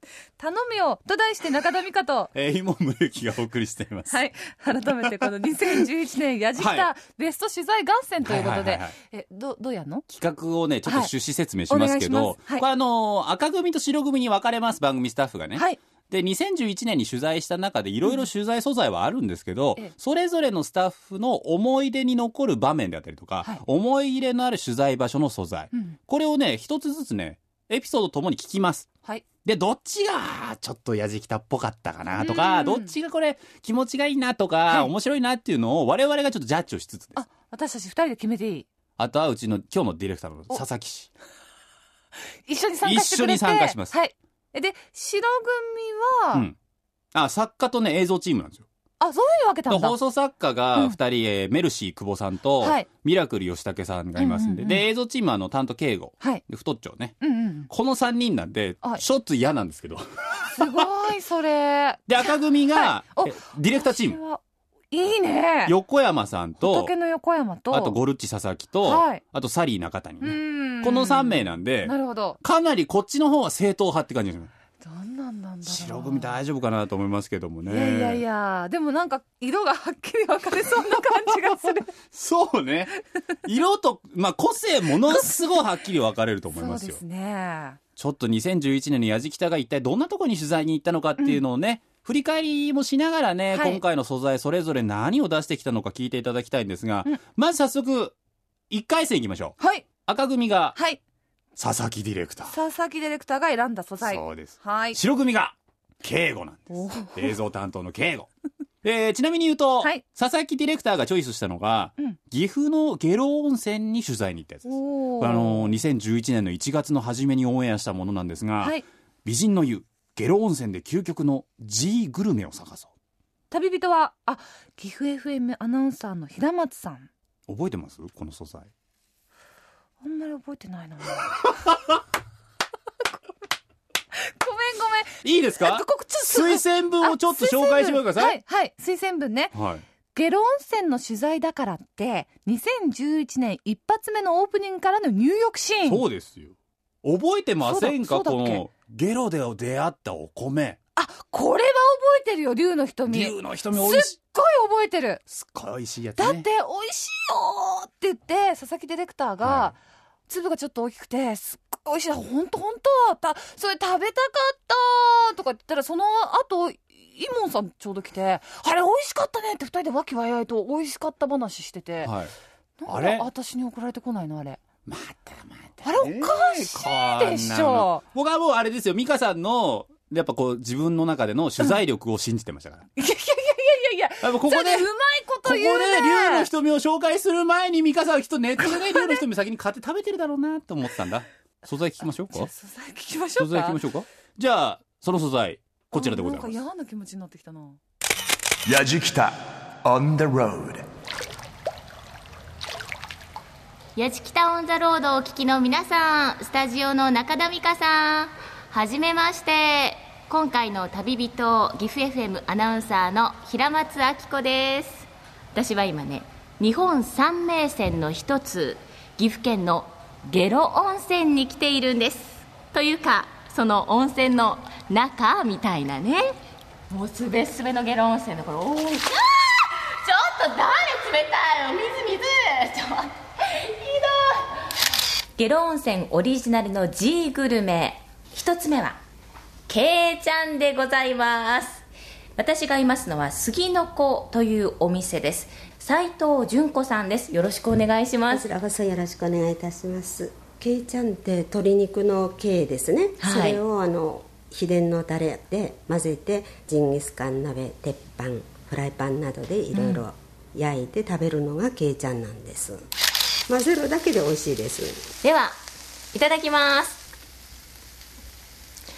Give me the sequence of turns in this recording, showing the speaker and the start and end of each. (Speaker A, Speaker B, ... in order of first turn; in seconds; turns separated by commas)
Speaker A: 0.4-2.3, Speaker B: 2.4-4.2, Speaker A: 4.1-10.1, Speaker B: 5.0-5.3, Speaker B: 6.6-6.9, Speaker B: 8.2-8.9, Speaker B: 10.1-28.9, Speaker A: 10.9-11.1, Speaker A: 11.7-12.7, Speaker A: 25.7-26.0, Speaker B: 29.4-37.2, Speaker A: 32.2-32.9, Speaker A: 37.1-38.7, Speaker B: 39.0-41.1, Speaker A: 42.5-46.5, Speaker B: 42.8-44.0, Speaker B: 47.1-48.6, Speaker A: 49.0-50.0, Speaker B: 49.7-60.1, Speaker A: 52.6-52.9, Speaker A: 54.2-54.9, Speaker A: 57.2-57.7, Speaker A: 60.5-65.8, Speaker B: 60.6-60.9, Speaker B: 62.1-64.2, Speaker B: 65.7-66.9, Speaker A: 66.6-68.0, Speaker B: 67.7-74.5, Speaker A: 68.8-69.2, Speaker A: 70.2-72.4, Speaker A: 74.8-76.3, Speaker B: 75.6-78.2, Speaker A: 77.7-81.9, Speaker B: 82.1-82.9, Speaker B: 83.5-87.0, Speaker A: 85.0-85.6, Speaker A: 86.5-87.8, Speaker B: 88.0-98.2, Speaker A: 93.5-93.8, Speaker B: 98.7-100.8, Speaker A: 99.6-99.9, Speaker B: 101.6-102.5, Speaker A: 102.5-105.0, Speaker B: 104.0-108.3, Speaker A: 106.7-107.4, Speaker B: 108.8-122.9, Speaker A: 114.7-115.8, Speaker A: 123.5-127.1, Speaker B: 127.5-128.7, Speaker A: 130.0-131.5, Speaker A: 134.4-139.6, Speaker B: 135.2-138.4, Speaker B: 139.5-139.8, Speaker A: 140.1-146.0, Speaker B: 145.9-150.8, Speaker A: 147.6-148.6, Speaker A: 151.0-155.2, Speaker B: 153.1-154.2, Speaker B: 155.3-156.5, Speaker A: 156.2-159.8, Speaker B: 159.4-159.7, Speaker A: 160.3-172.1, Speaker B: 172.0-172.3, Speaker A: 172.8-174.6, Speaker B: 172.9-173.3, Speaker B: 174.9-182.9, Speaker A: 175.8-178.0, Speaker A: 183.0-186.5, Speaker B: 184.2-184.9, Speaker B: 185.4-192.5, Speaker A: 188.6-189.2, Speaker A: 192.3-193.8, Speaker B: 193.4-196.6, Speaker A: 195.9-197.8, Speaker C: 198.7-200.8, Speaker D: 204.0-226.3, Speaker D: 226.9-234.6, Speaker D: 235.4-239.0, Speaker D: 239.7-241.8, Speaker D: 242.4-248.5, Speaker E: 248.3-262.8, Speaker D: 253.2-253.6, Speaker D: 259.7-260.0, Speaker E: 263.5-265.1, Speaker D: 265.2-265.6, Speaker D: 266.1-267.1